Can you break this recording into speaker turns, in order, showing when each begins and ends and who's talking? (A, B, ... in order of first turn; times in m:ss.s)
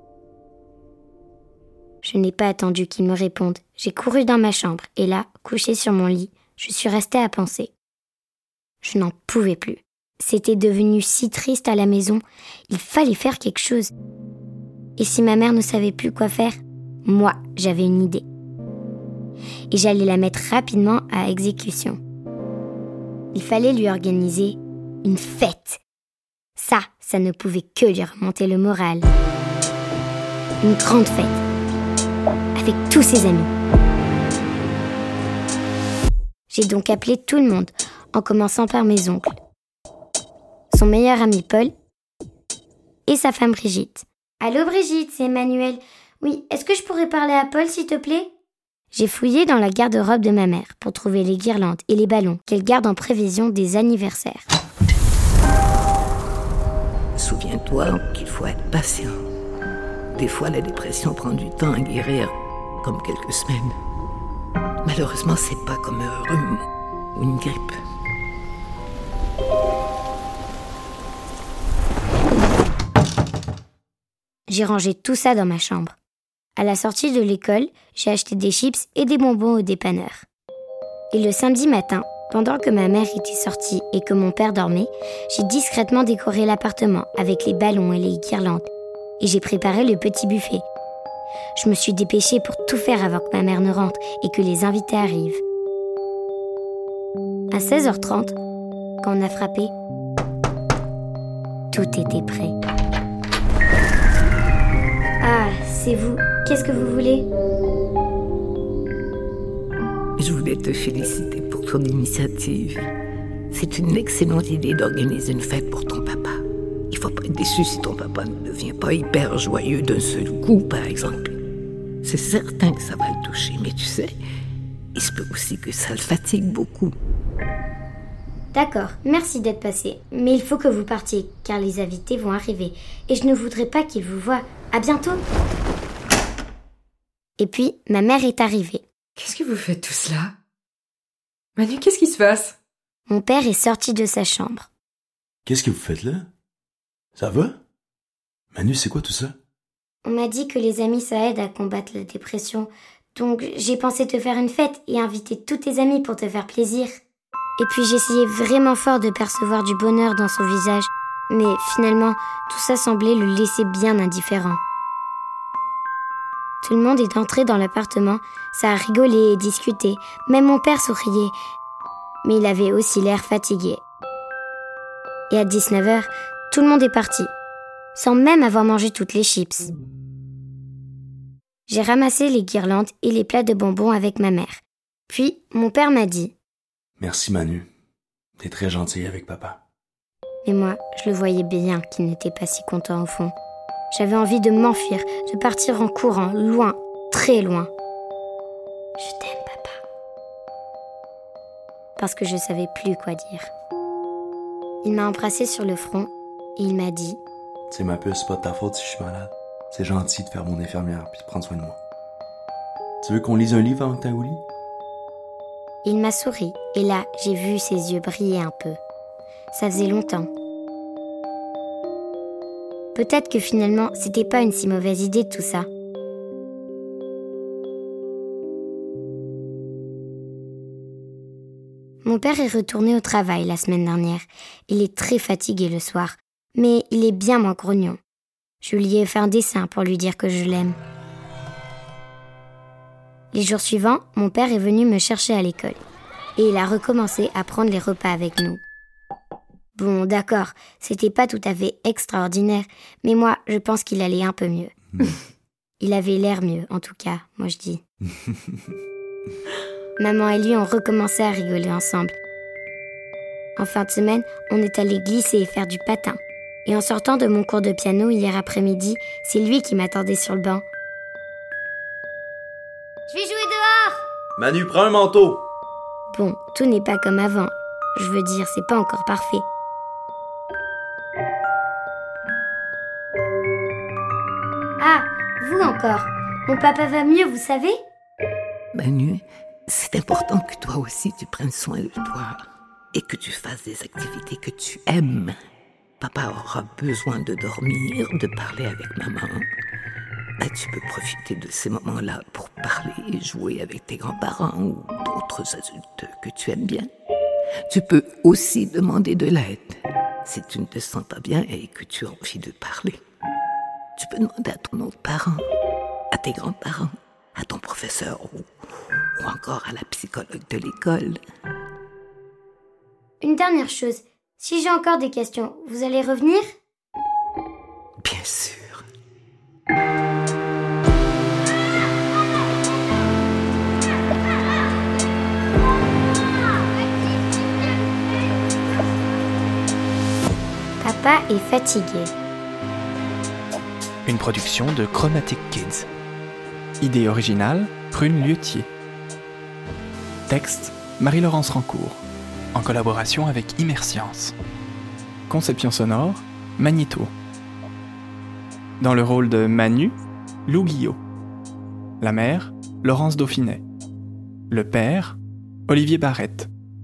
0:02.0-0:07.7 A
0:08.8-0:13.9 A
0:15.0-0:18.2 A
0:19.7-0:22.0 A
0:23.3-0:25.8 A
0:26.6-0:29.1 A
0:30.6-0:31.4 A
0:32.6-0:33.5 A
0:36.5-0:39.3 A
0:40.7-0:41.7 A
0:43.1-0:48.3 A
0:48.9-0:54.5 A
0:57.2-0:59.2 B
1:00.1-1:03.7 B
1:04.8-1:07.8 B
1:14.5-1:15.9 A
1:16.6-1:20.2 A
1:21.1-1:28.7 A
1:29.2-1:30.6 A
1:31.6-1:35.4 A
1:37.5-1:38.4 A
1:39.0-1:39.7 A
1:41.7-1:42.5 A
1:45.2-1:47.3 A
1:50.2-1:52.9 B
1:53.5-2:01.4 B
2:02.0-2:04.1 B
2:04.9-2:06.9 B
2:08.5-2:15.2 A
2:17.4-2:18.8 A
2:19.2-2:20.3 C
2:21.6-2:22.6 C
2:23.1-2:24.7 A
2:25.4-2:26.3 D
2:27.2-2:27.6 D
2:28.5-2:29.3 D
2:30.0-2:37.0 A
2:37.6-2:44.6 A
2:46.6-2:51.3 A
2:52.2-2:53.8 A
2:55.3-2:57.3 A
2:57.9-2:59.7 A
3:01.7-3:06.3 A
3:07.0-3:07.7 D
3:08.4-3:09.6 D
3:10.4-3:13.3 A
3:13.9-3:17.7 A
3:19.0-3:19.8 A
3:22.0-3:23.5 A
3:24.8-3:27.2 A
3:27.7-3:31.8 D
3:33.0-3:34.4 D
3:35.8-3:38.8 A
3:39.5-3:40.3 A
3:42.9-3:45.7 A
3:52.0-3:58.0 A
3:58.6-4:00.8 A
4:03.3-4:05.8 A
4:06.4-4:08.6 A
4:09.8-4:14.7 A
4:15.8-4:17.8 A
4:20.0-4:22.2 A
4:23.6-4:30.6 A
4:33.1-4:34.0 A
4:34.4-4:35.4 D
4:36.1-4:39.5 A
4:44.8-4:47.8 A
4:48.7-4:52.4 B
4:52.9-4:55.4 B
4:56.0-4:59.5 B
5:00.4-5:06.9 B
5:07.7-5:13.0 B
5:14.0-5:15.4 B
5:16.1-5:18.5 B
5:19.2-5:21.2 B
5:23.2-5:26.5 A
5:28.0-5:28.8 B
5:40.8-5:42.1 A
5:44.0-5:45.9 E
5:46.8-5:48.7 E
5:50.3-5:52.0 E
5:52.5-5:54.3 E
5:55.3-5:57.1 E
5:58.8-6:01.0 E
6:02.0-6:03.6 E
6:04.5-6:05.2 E
6:05.7-6:06.5 E